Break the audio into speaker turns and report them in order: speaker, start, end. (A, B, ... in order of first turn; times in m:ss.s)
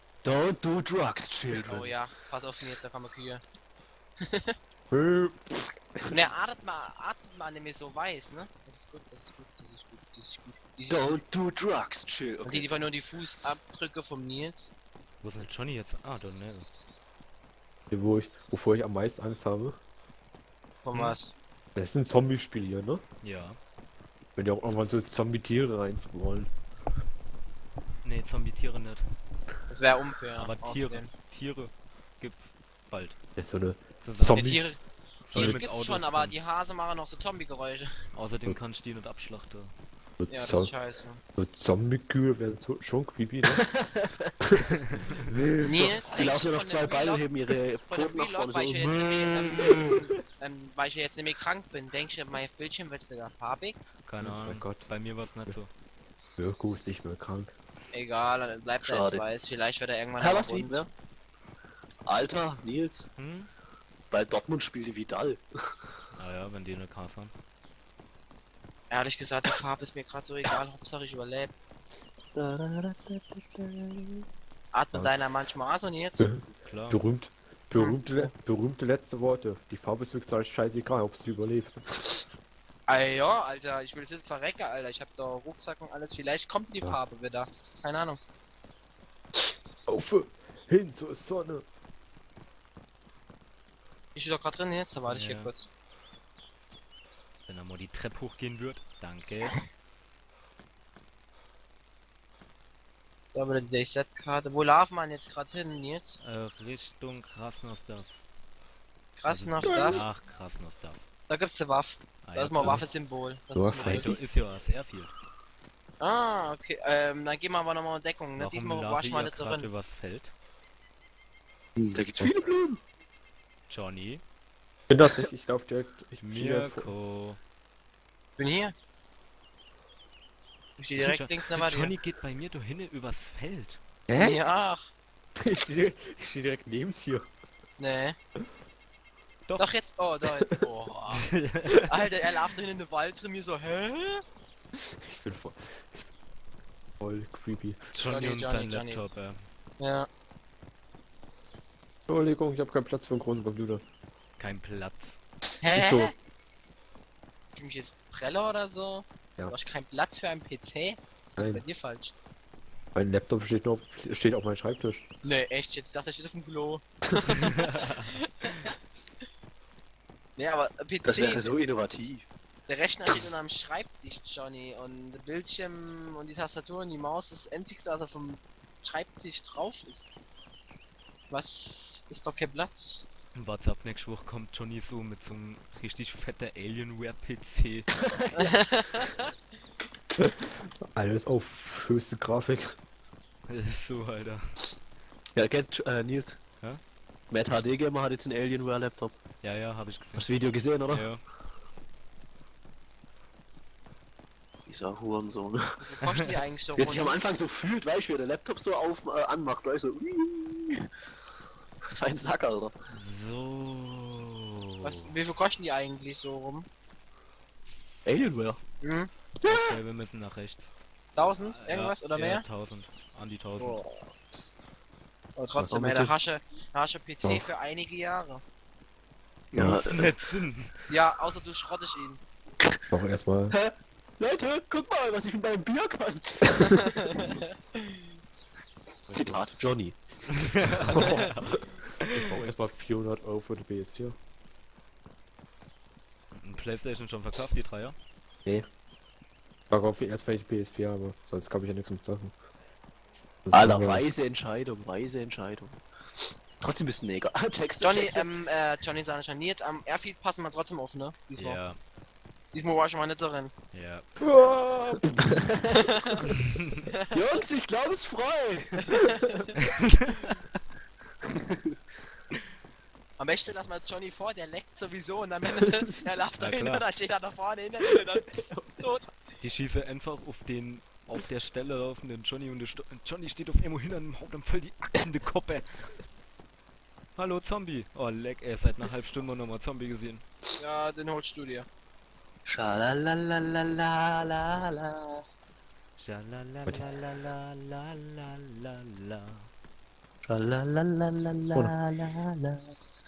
0:00.2-0:01.9 A
0:01.7-0:03.4 B
0:04.2-0:04.5 B
0:04.9-0:06.2 C
0:06.1-0:11.2 B
0:10.9-0:12.7 A
0:12.4-0:14.7 B
0:15.2-0:16.7 D
0:17.9-0:19.8 C
0:20.8-0:21.3 B
0:21.8-0:23.0 C
0:23.2-0:23.6 D
0:24.4-0:26.5 C
0:28.0-0:29.1 D
0:29.7-0:31.1 B
0:30.4-0:33.2 D
0:33.4-0:34.6 C
0:34.0-0:34.7 D
0:34.3-0:38.0 B
0:35.2-0:36.4 D
0:35.3-0:35.7 C
0:38.1-0:39.7 D
0:40.2-0:40.7 C
0:40.3-0:41.2 B
0:41.3-0:43.7 C
0:43.5-0:44.1 A
0:45.2-0:46.0 C
0:45.6-0:47.3 B
0:45.7-0:49.8 A
0:47.9-0:53.8 B
0:54.0-0:55.7 D
0:54.2-0:54.9 C
0:56.4-0:57.6 C
0:57.9-1:00.8 B
0:58.8-0:59.3 A
1:00.2-1:00.9 A
1:02.1-1:03.1 A
1:03.2-1:03.5 D
1:04.1-1:05.8 A
1:06.2-1:07.3 D
1:08.9-1:11.5 B
1:12.4-1:14.2 A
1:14.7-1:16.3 B
1:16.2-1:22.2 C
1:16.6-1:17.0 D
1:17.8-1:18.3 B
1:22.9-1:28.2 B
1:29.9-1:31.6 C
1:34.2-1:35.7 B
1:35.1-1:35.5 D
1:37.5-1:39.6 D
1:43.3-1:46.2 B
1:46.2-1:48.2 D
1:49.2-1:50.0 B
1:49.3-1:51.0 D
1:49.6-1:50.0 C
1:51.3-1:54.2 B
1:52.2-1:52.9 D
1:53.5-1:54.1 C
1:53.8-1:55.1 D
1:56.0-1:59.7 B
1:58.4-2:00.3 D
2:01.8-2:02.3 C
2:01.9-2:02.8 A
2:03.7-2:04.2 D
2:04.9-2:06.9 C
2:06.2-2:07.4 D
2:08.4-2:08.7 B
2:10.8-2:12.0 B
2:11.0-2:13.8 D
2:14.1-2:14.4 C
2:14.2-2:14.8 B
2:15.4-2:17.3 C
2:17.8-2:18.2 B
2:19.5-2:19.7 D
2:19.6-2:21.3 B
2:21.3-2:21.8 D
2:21.9-2:24.2 B
2:24.8-2:26.1 C
2:27.0-2:27.9 C
2:27.9-2:29.5 D
2:28.1-2:29.0 B
2:29.8-2:30.1 B
2:32.1-2:33.8 C
2:34.4-2:35.2 D
2:35.6-2:36.1 B
2:35.7-2:36.1 C
2:37.6-2:42.1 B
2:41.4-2:41.6 C
2:43.0-2:45.1 C
2:45.2-2:48.2 B
2:47.6-2:48.1 D
2:50.4-2:51.5 B
2:51.0-2:52.3 A
2:52.7-3:00.1 B
3:01.3-3:03.1 B
3:03.3-3:07.9 D
3:08.1-3:08.5 A
3:08.4-3:09.2 B
3:10.2-3:12.8 C
3:13.5-3:14.6 D
3:15.4-3:16.4 A
3:17.3-3:19.2 A
3:19.4-3:21.2 D
3:20.2-3:21.1 A
3:24.7-3:25.8 A
3:25.8-3:27.2 B
3:26.8-3:30.9 A
3:31.8-3:32.8 A
3:32.9-3:35.1 D
3:34.8-3:36.7 B
3:37.7-3:38.4 D
3:38.1-3:38.6 A
3:38.8-3:39.1 B
3:39.4-3:39.8 A
3:39.4-3:43.8 D
3:41.2-3:42.4 B
3:43.6-3:44.1 B
3:45.4-3:48.4 B
3:45.7-3:46.1 A
3:47.2-3:47.5 C
3:49.5-3:50.1 A
3:49.5-3:49.9 C
3:49.6-3:50.8 D
3:50.9-3:52.2 B
3:52.9-3:53.6 C
3:53.5-3:57.3 A
3:59.1-4:00.8 A
3:59.1-3:59.4 C
4:00.4-4:02.3 D
4:00.9-4:01.3 B
4:00.9-4:04.2 C
4:06.4-4:08.0 D
4:09.7-4:12.4 C
4:13.5-4:14.0 C
4:13.5-4:18.3 A
4:17.8-4:21.6 B
4:21.4-4:21.8 D
4:22.5-4:23.5 B
4:23.7-4:24.1 D
4:24.2-4:25.4 C
4:25.3-4:25.9 A
4:25.8-4:26.1 B
4:27.1-4:29.2 A
4:29.7-4:30.4 D
4:31.2-4:31.8 A
4:33.2-4:39.1 B
4:36.4-4:36.9 D
4:39.4-4:46.0 D
4:47.2-4:50.2 D
4:50.6-4:51.7 B
4:52.5-4:55.2 A
4:56.0-4:59.5 D
5:00.2-5:02.8 A